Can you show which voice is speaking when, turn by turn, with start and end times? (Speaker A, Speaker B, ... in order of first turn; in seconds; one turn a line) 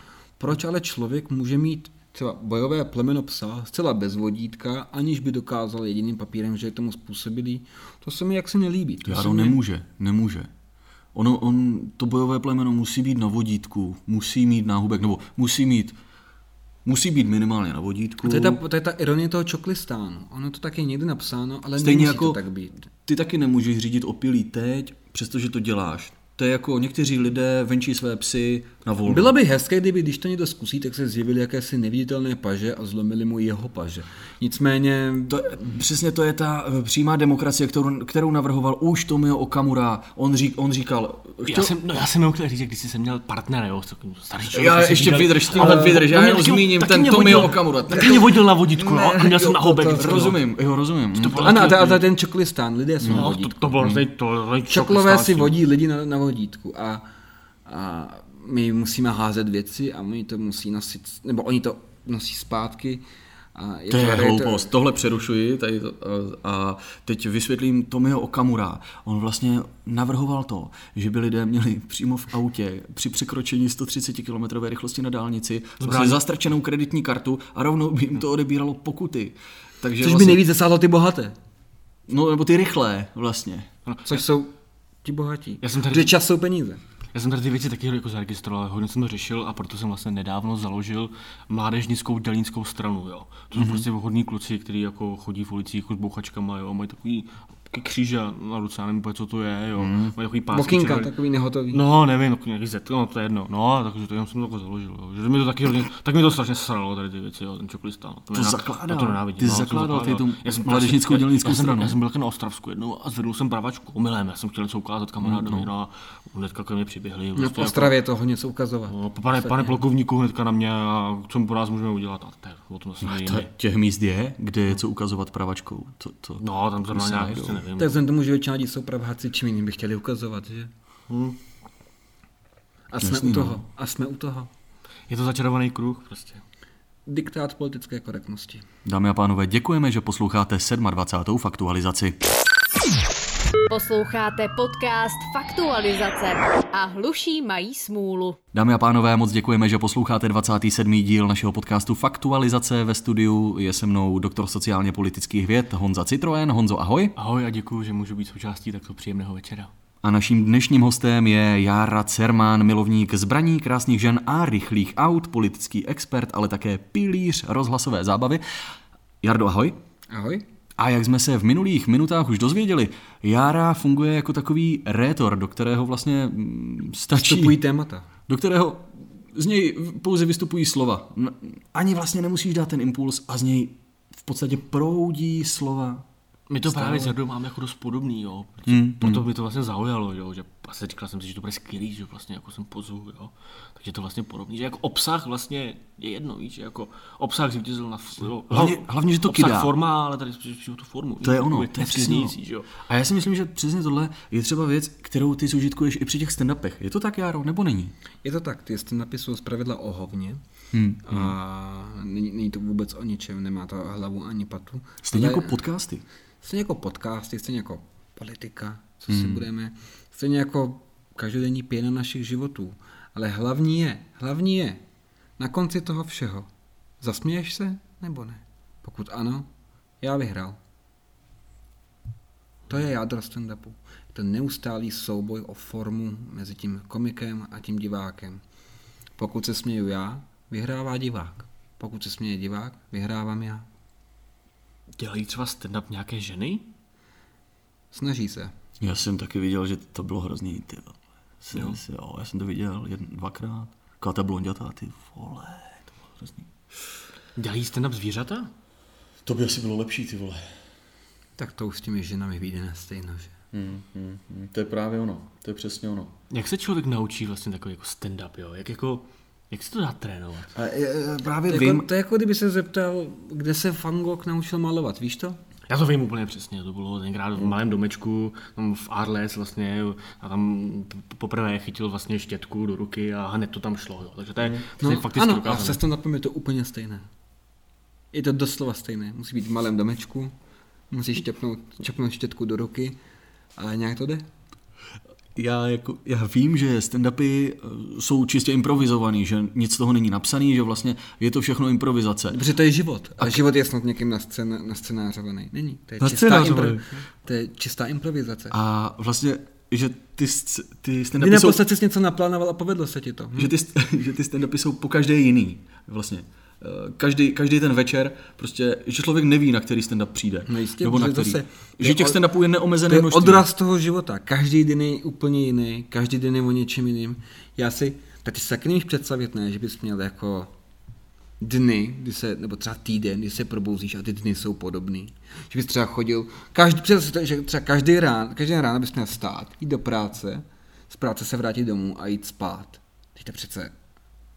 Speaker A: 0.4-9.6
Speaker B: 9.0-10.5
Speaker B: 11.1-15.9
Speaker B: 16.8-18.6
Speaker A: 18.2-22.9
Speaker B: 21.8-22.4
Speaker B: 23.1-29.3
Speaker A: 29.1-35.8
Speaker B: 35.3-41.7
Speaker C: 41.4-50.4
Speaker B: 44.5-48.4
Speaker A: 45.5-46.0
Speaker A: 48.7-50.3
Speaker B: 49.4-51.7
Speaker C: 51.1-52.0
Speaker A: 51.3-53.9
Speaker B: 53.0-54.0
Speaker C: 53.1-55.6
Speaker A: 54.7-57.0
Speaker A: 57.6-63.0
Speaker A: 63.5-64.7
Speaker B: 63.9-80.4
Speaker C: 75.8-76.2
Speaker A: 80.0-81.3
Speaker B: 82.1-83.7
Speaker C: 83.9-84.2
Speaker A: 84.1-84.5
Speaker A: 85.0-86.8
Speaker C: 85.6-86.1
Speaker C: 87.1-101.2
Speaker B: 93.5-93.8
Speaker B: 99.8-100.1
Speaker A: 100.5-101.8
Speaker C: 101.7-118.0
Speaker B: 108.3-112.0
Speaker B: 115.2-115.7
Speaker A: 117.3-119.7
Speaker C: 118.9-123.5
Speaker B: 123.0-127.7
Speaker C: 126.4-128.0
Speaker A: 127.8-130.7
Speaker C: 131.1-131.4
Speaker A: 132.9-134.5
Speaker B: 133.0-133.6
Speaker C: 135.1-136.4
Speaker A: 137.1-138.6
Speaker B: 138.8-142.2
Speaker D: 143.7-148.4
Speaker B: 148.5-157.1
Speaker C: 157.2-159.7
Speaker B: 160.0-168.4
Speaker B: 169.2-169.8
Speaker A: 170.1-170.4
Speaker B: 170.8-177.6
Speaker A: 177.1-178.1
Speaker B: 178.3-186.0
Speaker C: 186.5-202.8
Speaker A: 186.7-187.1
Speaker B: 188.7-189.2
Speaker B: 198.5-199.7
Speaker B: 201.2-207.9
Speaker A: 208.2-210.4
Speaker B: 210.7-211.3
Speaker A: 211.0-215.6
Speaker B: 215.0-216.0
Speaker A: 216.4-224.8
Speaker B: 219.1-219.4
Speaker A: 225.4-226.5
Speaker A: 227.0-229.5
Speaker A: 230.0-230.6
Speaker A: 232.7-238.4
Speaker A: 239.2-243.7
Speaker C: 245.0-246.7
Speaker A: 247.9-248.5
Speaker B: 248.8-256.5
Speaker C: 257.4-258.5
Speaker B: 259.2-260.4
Speaker A: 261.4-263.3
Speaker B: 263.5-266.1
Speaker C: 266.3-270.6
Speaker B: 270.6-271.9
Speaker A: 271.4-275.4
Speaker C: 275.7-285.8
Speaker A: 284.8-287.1
Speaker A: 288.1-290.3
Speaker A: 290.9-293.0
Speaker A: 293.6-294.2
Speaker B: 295.4-302.4
Speaker A: 302.3-308.6
Speaker B: 306.0-306.9
Speaker B: 308.5-311.6
Speaker A: 311.2-313.5
Speaker B: 313.4-323.4
Speaker A: 320.5-322.2
Speaker A: 322.9-330.5
Speaker A: 331.4-343.7